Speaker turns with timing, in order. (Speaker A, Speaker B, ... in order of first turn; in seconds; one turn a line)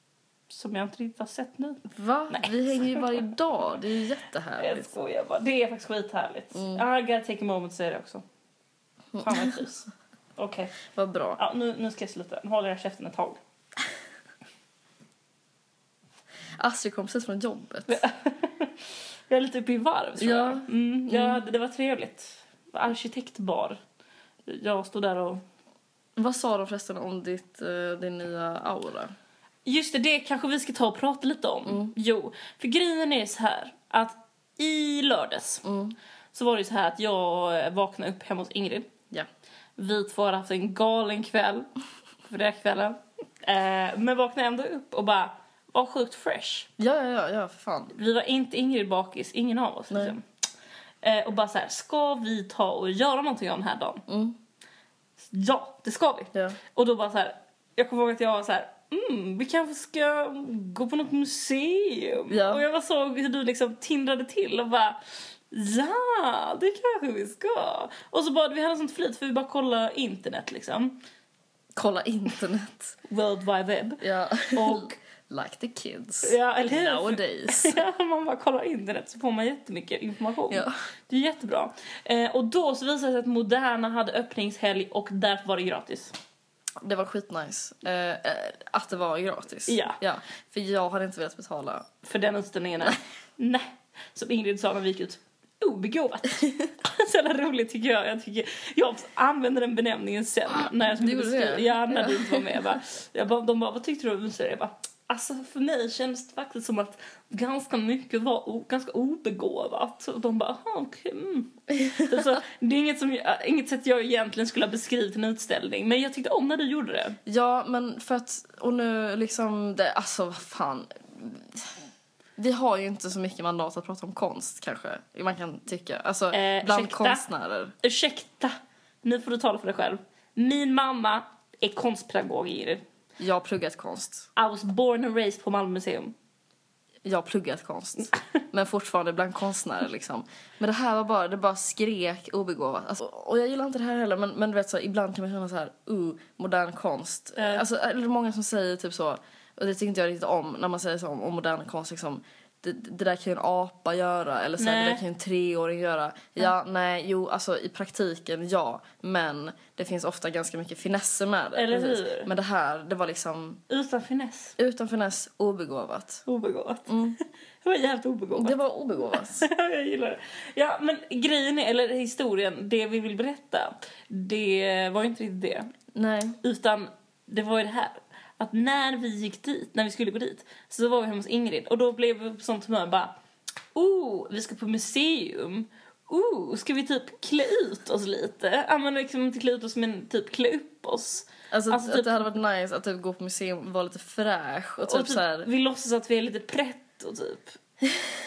Speaker A: 0.5-3.2
Speaker B: 1.9-4.9
Speaker A: 4.5-8.2
Speaker B: 6.5-6.8
Speaker B: 9.1-9.6
Speaker A: 9.2-10.8
Speaker B: 10.8-11.4
Speaker A: 11.3-13.4
Speaker B: 16.6-18.0
Speaker A: 17.9-18.7
Speaker A: 19.3-23.8
Speaker B: 20.2-21.4
Speaker A: 24.4-25.4
Speaker B: 26.1-29.1
Speaker A: 29.6-35.6
Speaker B: 31.6-31.9
Speaker B: 35.6-36.0
Speaker A: 36.3-38.9
Speaker A: 39.8-41.7
Speaker A: 42.2-46.7
Speaker B: 46.8-47.9
Speaker A: 47.9-50.2
Speaker B: 49.9-50.1
Speaker A: 51.0-54.0
Speaker B: 54.1-54.4
Speaker A: 55.3-71.0
Speaker B: 62.3-62.6
Speaker B: 71.8-72.9
Speaker A: 73.1-75.0
Speaker B: 74.0-77.8
Speaker A: 76.2-86.2
Speaker B: 86.8-91.9
Speaker A: 89.7-90.0
Speaker A: 92.0-117.2
Speaker B: 96.4-96.7
Speaker B: 100.5-102.5
Speaker B: 111.8-112.3
Speaker B: 117.2-121.8
Speaker B: 122.4-127.7
Speaker A: 126.3-127.2
Speaker A: 127.8-132.8
Speaker B: 133.2-134.3
Speaker A: 134.3-136.1
Speaker B: 137.0-163.6
Speaker A: 147.4-147.6
Speaker A: 154.6-155.0
Speaker A: 161.5-162.3
Speaker A: 163.7-164.5
Speaker B: 164.6-166.2
Speaker A: 166.2-166.9
Speaker B: 166.9-167.2
Speaker A: 167.6-168.6
Speaker B: 168.4-169.5
Speaker A: 169.1-175.7
Speaker B: 175.9-176.4
Speaker A: 176.4-183.1
Speaker A: 183.7-192.2
Speaker B: 191.5-195.5
Speaker A: 194.8-197.6